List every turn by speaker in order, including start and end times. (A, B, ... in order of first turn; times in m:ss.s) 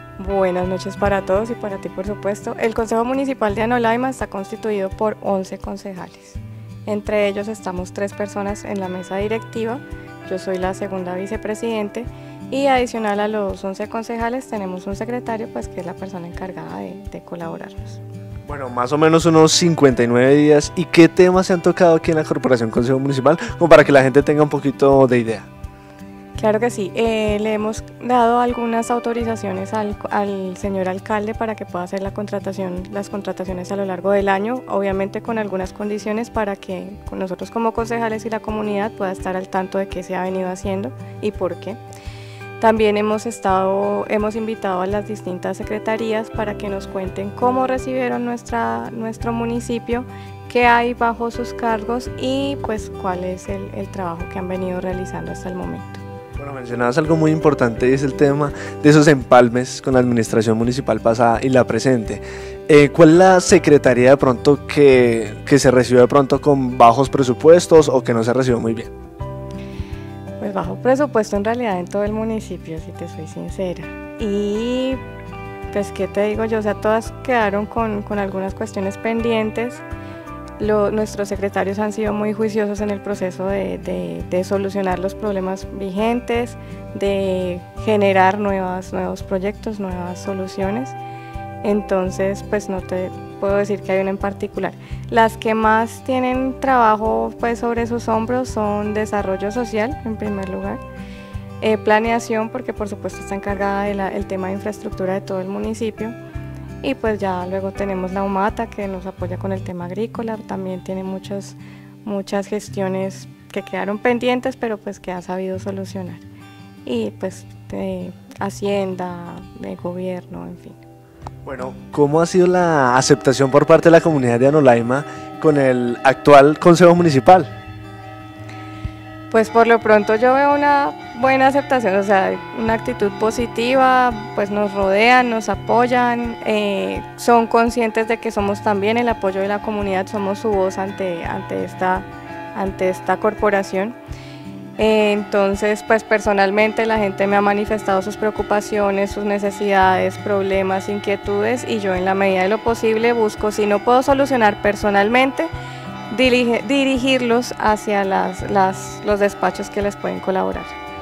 0:00.2-0:18.0 A
0:18.5-0:25.5 B
0:26.4-0:41.8 A
0:42.6-0:56.0 A
0:56.4-1:08.9 B
1:10.4-1:15.0 A
1:15.7-1:19.8 A
1:20.6-1:31.0 A
1:31.6-1:40.8 A
1:41.6-1:46.2 A
1:46.8-1:56.3 A
1:56.8-2:00.8 A
2:01.4-2:07.5 B
2:09.3-2:24.0 A
2:24.8-2:35.5 A
2:36.1-2:40.8 A